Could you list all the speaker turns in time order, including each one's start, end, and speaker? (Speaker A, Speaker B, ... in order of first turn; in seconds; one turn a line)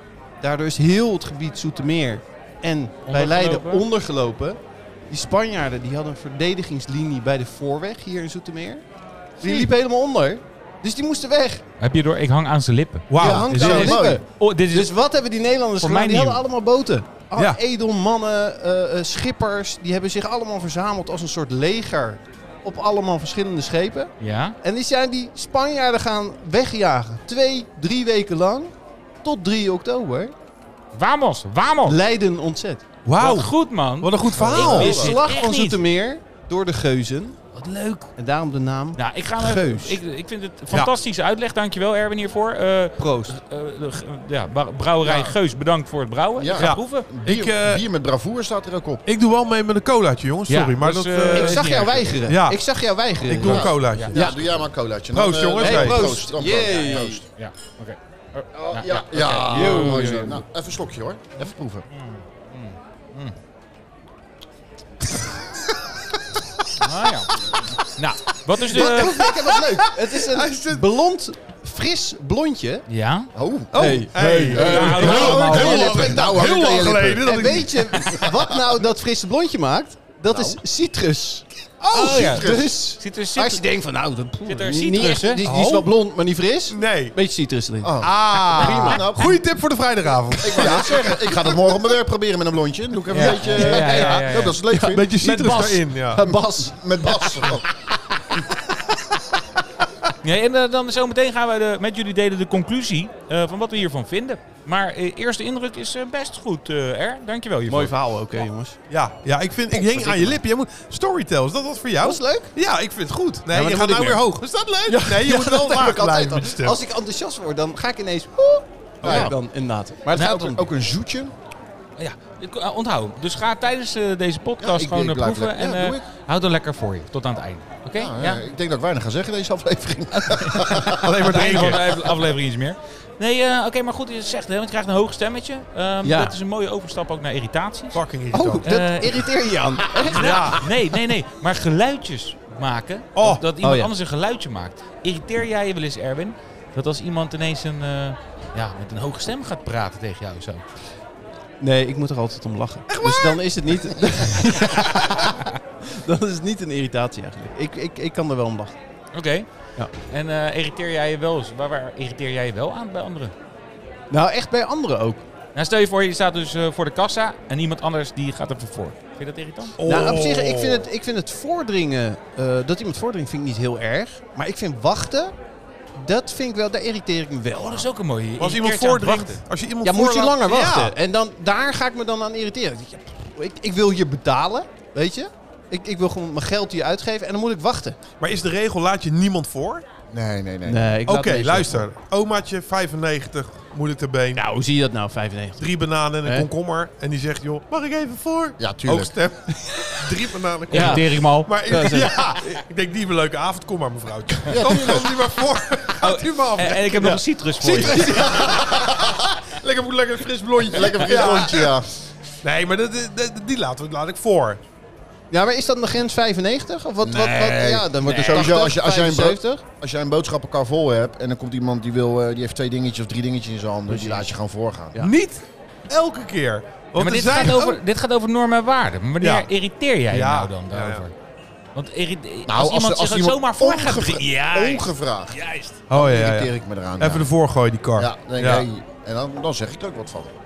Speaker A: 0.4-4.6
Speaker B: 3.1-3.8
Speaker A: 5.1-8.8
Speaker A: 9.4-11.6
Speaker B: 11.8-14.9
Speaker C: 13.1-14.0
Speaker A: 13.2-28.7
Speaker D: 13.2-14.2
Speaker B: 15.8-16.4
Speaker B: 24.2-24.6
Speaker A: 29.2-30.3
Speaker B: 30.9-32.0
Speaker A: 31.9-32.8
Speaker C: 33.0-35.0
Speaker B: 33.2-35.8
Speaker A: 34.4-37.4
Speaker D: 34.6-35.1
Speaker B: 37.5-38.1
Speaker A: 38.2-40.0
Speaker B: 39.0-47.1
Speaker A: 43.0-43.4
Speaker D: 45.0-45.4
Speaker D: 46.4-49.0
Speaker C: 46.6-47.8
Speaker C: 49.1-51.7
Speaker B: 50.5-52.2
Speaker A: 51.3-54.4
Speaker C: 52.3-52.6
Speaker C: 53.2-54.3
Speaker D: 53.4-57.2
Speaker C: 55.1-56.2
Speaker A: 55.6-57.2
Speaker B: 57.4-60.4
Speaker D: 58.5-61.9
Speaker A: 59.1-60.4
Speaker B: 61.9-63.4
Speaker B: 66.8-69.2
Speaker A: 68.6-72.9
Speaker C: 68.7-70.8
Speaker B: 72.9-73.3
Speaker D: 73.3-77.3
Speaker C: 73.7-78.4
Speaker A: 73.7-89.1
Speaker B: 74.5-75.9
Speaker D: 80.3-80.6
Speaker D: 81.9-82.7
Speaker B: 81.9-83.7
Speaker B: 84.5-85.4
Speaker C: 85.5-85.9
Speaker C: 86.7-87.2
Speaker D: 87.8-89.4
Speaker C: 88.0-91.5
Speaker D: 90.4-95.2
Speaker A: 93.1-94.2
Speaker B: 93.1-94.7
Speaker C: 93.7-96.2
Speaker A: 95.2-97.6
Speaker D: 96.1-97.7
Speaker B: 100.2-108.5
Speaker A: 107.7-108.8
Speaker C: 108.9-116.8
Speaker A: 109.7-110.4
Speaker A: 112.0-112.5
Speaker A: 113.5-120.7
Speaker C: 119.0-119.3
Speaker D: 119.0-119.3
Speaker B: 120.1-120.5
Speaker D: 120.2-121.3
Speaker B: 122.0-128.4
Speaker D: 124.6-126.0
Speaker D: 128.0-131.2
Speaker B: 130.1-138.0
Speaker C: 130.9-131.9
Speaker A: 136.0-136.3
Speaker C: 137.9-138.7
Speaker A: 138.3-140.7
Speaker B: 138.6-139.3
Speaker B: 140.0-150.7
Speaker C: 140.1-140.7
Speaker C: 143.2-143.4
Speaker A: 143.6-143.9
Speaker A: 151.6-158.8
Speaker C: 152.9-153.4
Speaker B: 159.1-163.3
Speaker A: 164.1-165.2
Speaker B: 165.6-169.8
Speaker C: 169.8-170.9
Speaker A: 169.8-175.4
Speaker A: 175.9-177.9
Speaker B: 177.6-179.4
Speaker C: 178.4-180.9
Speaker A: 179.8-188.0
Speaker C: 188.2-189.8
Speaker D: 190.1-191.0
Speaker A: 190.7-191.9
Speaker C: 191.1-194.4
Speaker A: 194.3-195.7
Speaker C: 195.6-207.1
Speaker A: 196.2-196.5
Speaker D: 198.6-199.1
Speaker A: 199.6-200.1
Speaker A: 200.7-202.6
Speaker B: 200.7-201.5
Speaker D: 204.5-205.1
Speaker B: 206.0-208.3
Speaker A: 207.0-208.8
Speaker C: 207.7-211.8
Speaker D: 208.4-209.2
Speaker D: 210.7-211.9
Speaker C: 212.4-214.6
Speaker A: 215.3-219.6
Speaker D: 217.0-225.0
Speaker B: 218.0-218.4
Speaker A: 223.9-224.3
Speaker C: 225.0-227.8
Speaker B: 227.0-231.1
Speaker C: 229.2-229.5
Speaker C: 230.1-231.1
Speaker B: 231.8-235.8
Speaker D: 232.5-237.3
Speaker C: 235.9-238.7
Speaker D: 238.0-240.3